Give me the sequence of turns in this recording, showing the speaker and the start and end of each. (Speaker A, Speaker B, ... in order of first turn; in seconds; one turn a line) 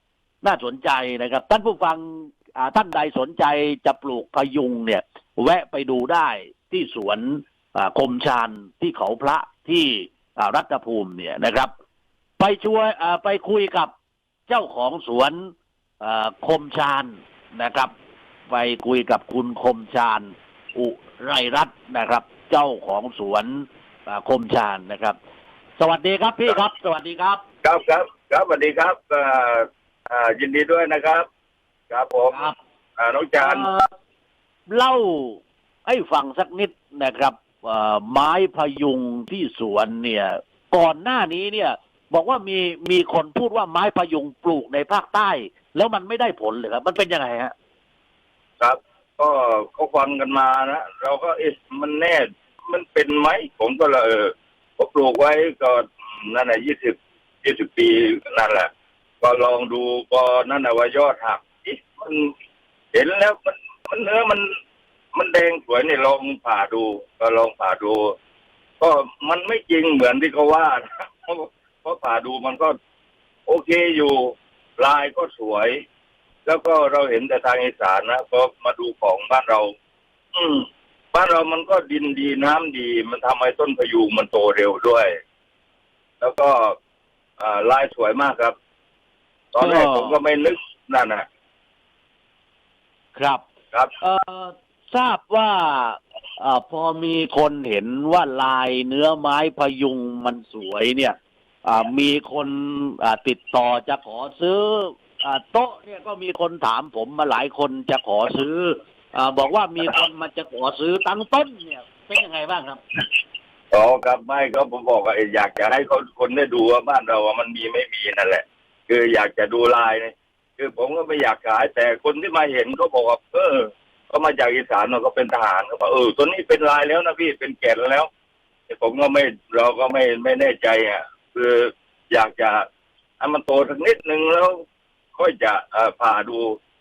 Speaker A: 0.4-11.7
Speaker A: 12.4-13.9
Speaker A: 14.5-17.9
Speaker A: 18.5-25.2
Speaker A: 25.8-27.4
Speaker B: 27.6-31.3
Speaker B: 31.9-33.7
Speaker A: 33.4-33.9
Speaker A: 34.7-47.5
Speaker B: 48.6-58.7
Speaker B: 59.2-62.3
Speaker B: 62.9-64.5
Speaker B: 65.1-68.2
Speaker B: 68.8-72.8
Speaker B: 73.5-75.8
Speaker B: 76.5-79.7
Speaker B: 80.3-85.2
Speaker B: 86.2-86.8
Speaker B: 87.4-88.6
Speaker B: 89.5-91.2
Speaker A: 89.6-90.2
Speaker A: 93.2-93.4
Speaker A: 94.0-112.8
Speaker B: 113.7-128.1
Speaker B: 128.7-132.7
Speaker B: 133.2-134.6
Speaker B: 135.2-136.6